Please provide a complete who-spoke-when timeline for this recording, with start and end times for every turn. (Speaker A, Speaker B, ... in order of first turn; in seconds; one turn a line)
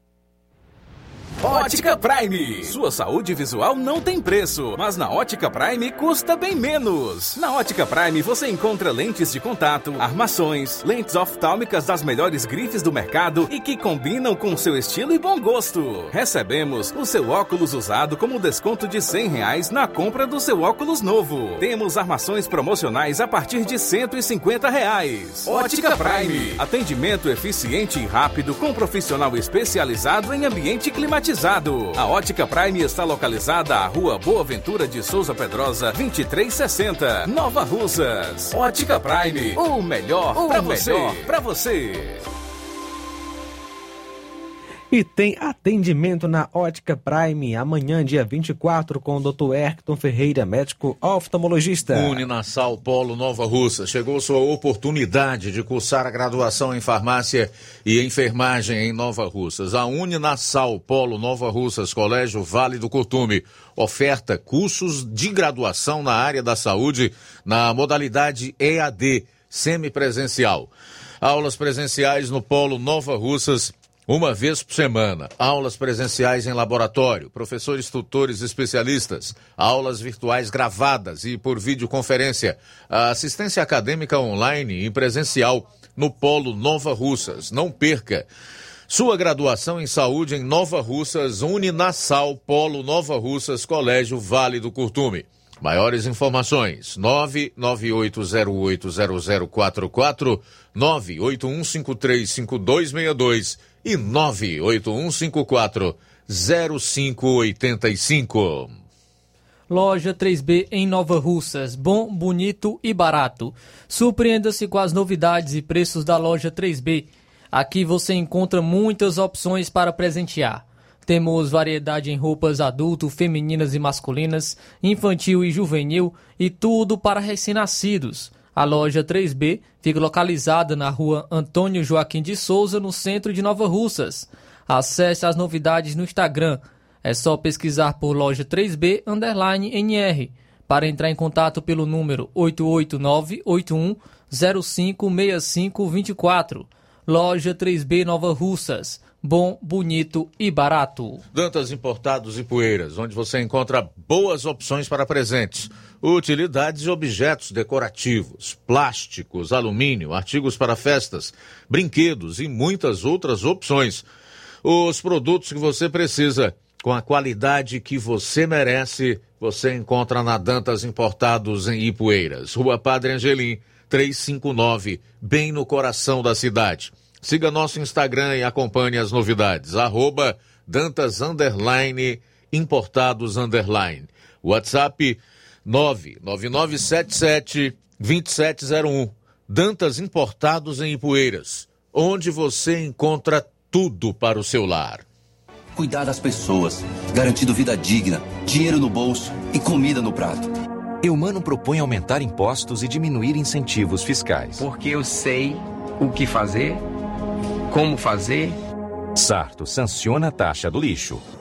Speaker A: 1.4-42.2
Speaker B: 44.9-52.2
Speaker C: 51.9-70.7
Speaker C: 71.2-88.3
Speaker C: 88.9-108.7
Speaker D: 109.7-151.2
Speaker C: 151.3-164.0
Speaker C: 164.6-195.0
Speaker E: 195.7-200.5
Speaker F: 201.0-204.6
Speaker G: 204.6-206.8
Speaker G: 207.7-208.6
Speaker F: 209.2-211.2